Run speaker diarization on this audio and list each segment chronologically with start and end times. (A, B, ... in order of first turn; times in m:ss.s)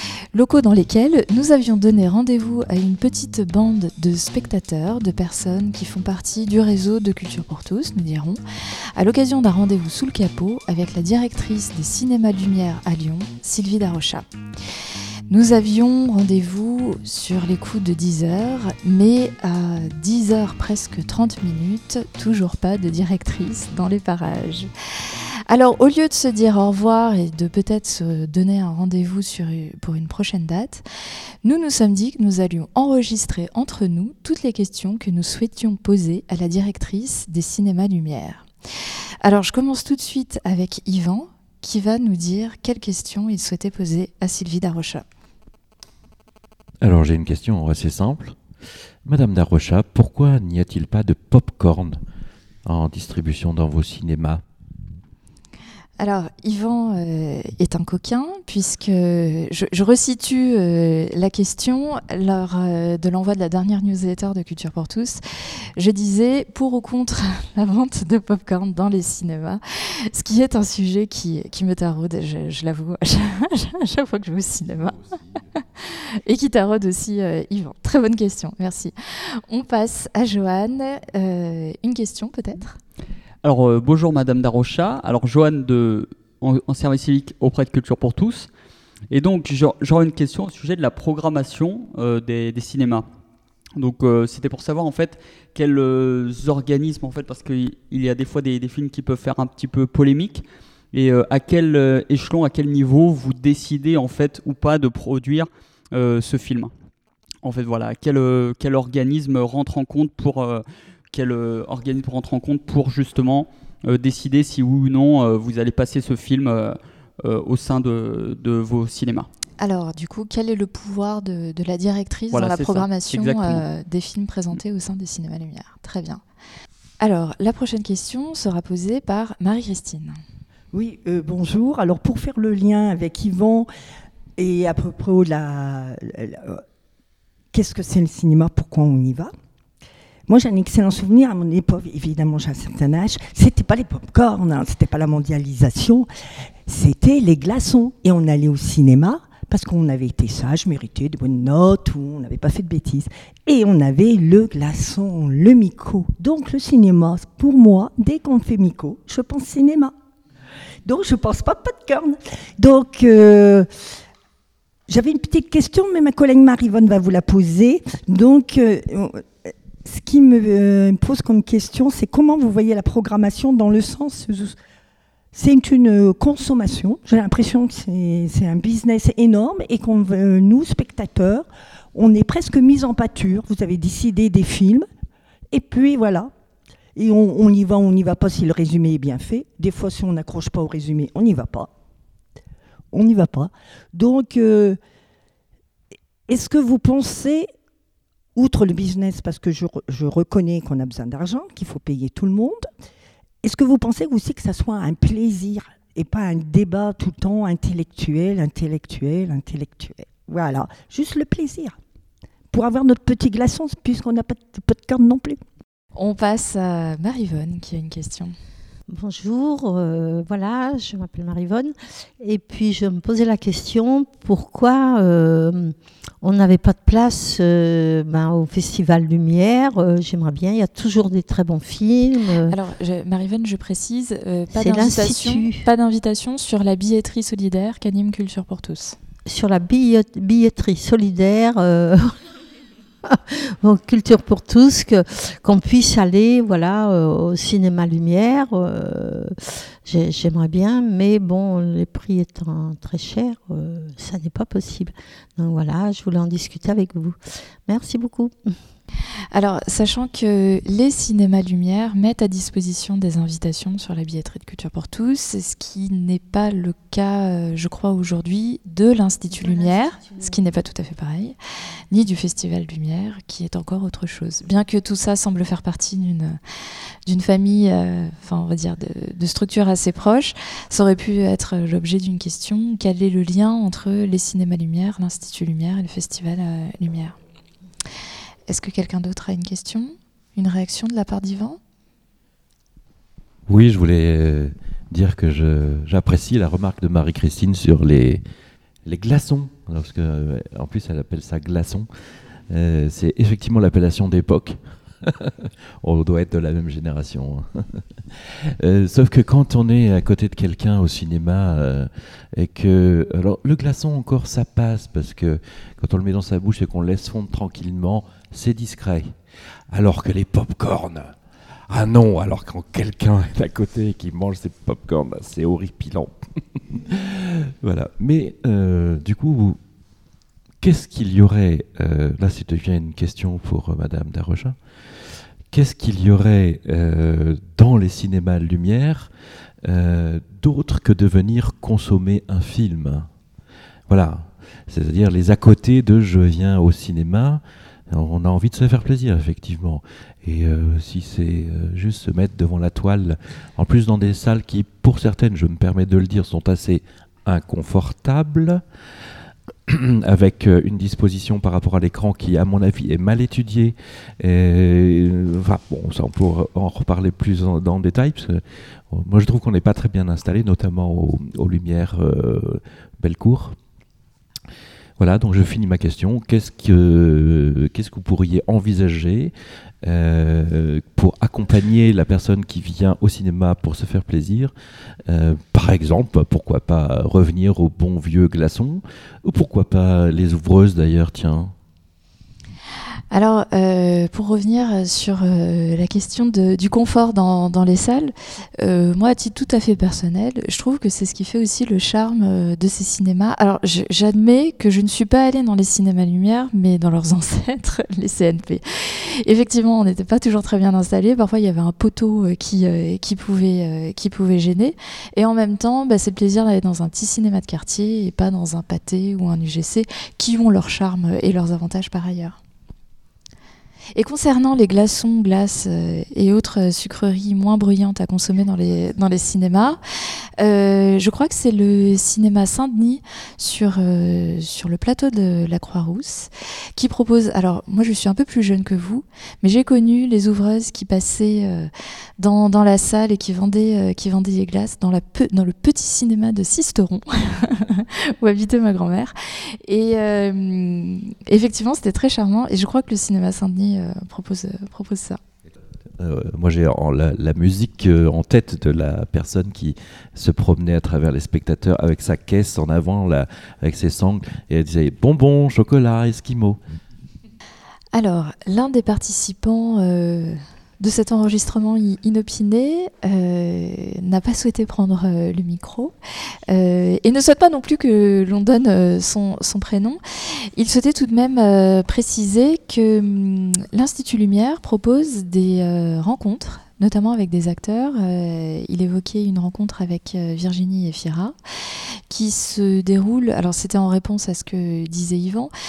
0:00.3-0:08.4 A
0:09.0-0:14.3 A
0:15.3-0:30.8 A
0:31.4-0:38.5 A
0:39.2-0:45.0 A
0:46.8-0:48.4 B
0:49.0-0:52.0 B
0:52.6-0:54.4 B
0:56.0-1:22.8 A
1:23.4-1:28.5 C
1:29.1-1:33.1 C
1:33.8-1:46.7 C
1:47.4-1:59.3 C
1:59.6-2:06.2 A
2:02.3-2:03.6 C
2:07.0-2:10.2 A
2:10.7-2:13.7 D
2:14.4-2:16.6 D
2:17.5-2:19.3 D
2:20.3-2:26.1 D
2:26.7-2:39.9 D
2:40.8-2:43.7 D
2:44.9-2:54.6 D
2:55.3-3:04.9 D
3:05.5-3:06.3 D
3:07.0-3:11.7 D
3:12.9-3:14.8 D
3:16.3-3:17.5 D
3:18.4-3:22.7 D
3:23.4-3:31.8 D
3:32.5-3:35.4 D
3:36.0-3:38.3 A
3:38.9-3:52.6 E
3:52.5-3:59.0 A
3:54.6-3:55.6 E
3:59.3-4:02.2 E
4:03.1-4:18.6 E
4:19.3-4:31.4 A
4:29.4-4:30.4 E
4:31.9-4:36.4 A
4:37.1-4:47.2 A
4:48.5-4:51.6 A
4:53.5-4:58.2 B
4:58.9-5:01.9 B
5:02.5-5:19.1 B
5:19.7-5:21.1 B
5:21.7-5:26.1 B
5:26.7-5:29.6 B
5:30.6-5:34.6 B
5:35.5-5:39.1 B
5:39.6-5:43.1 B
5:43.9-5:58.6 B
5:59.7-6:13.6 B
6:15.0-6:19.3 B
6:19.8-6:24.5 B
6:25.1-6:31.5 B
6:33.1-7:02.4 A
7:04.0-7:09.8 A
7:10.4-7:35.2 A
7:36.0-7:46.6 B
7:47.9-7:55.9 A
7:56.5-8:11.4 A
8:12.1-8:15.5 A